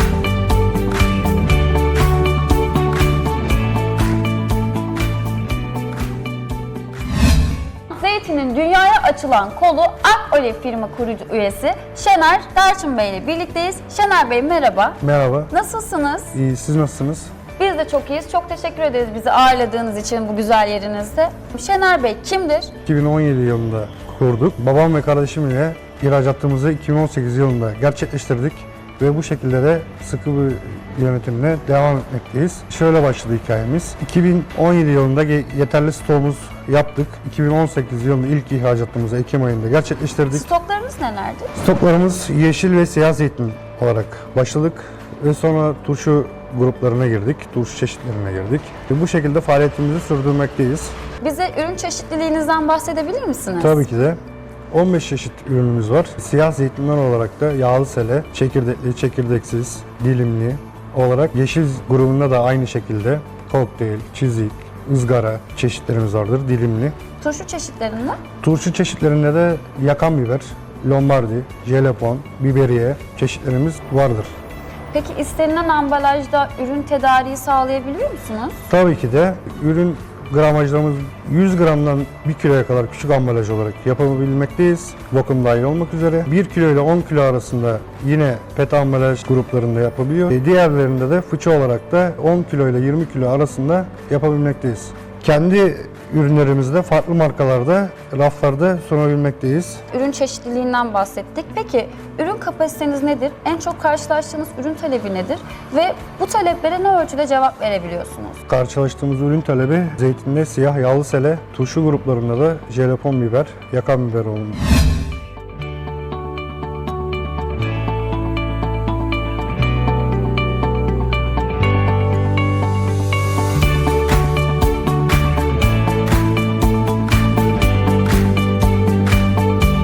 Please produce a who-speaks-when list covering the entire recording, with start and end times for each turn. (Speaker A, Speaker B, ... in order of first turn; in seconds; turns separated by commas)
Speaker A: 7.9-15.0, Speaker B: 15.0-15.5, Speaker A: 15.5-16.4, Speaker B: 16.3-17.3, Speaker A: 17.6-22.7, Speaker B: 22.8-40.5, Speaker A: 40.3-41.5, Speaker B: 41.6-51.0, Speaker A: 51.2-53.8, Speaker B: 53.6-54.2, Speaker B: 54.7-66.9, Speaker A: 67.2-68.2, Speaker B: 68.4-74.3, Speaker A: 74.9-78.6, Speaker B: 78.7-99.8, Speaker A: 99.9-108.4, Speaker B: 108.5-114.6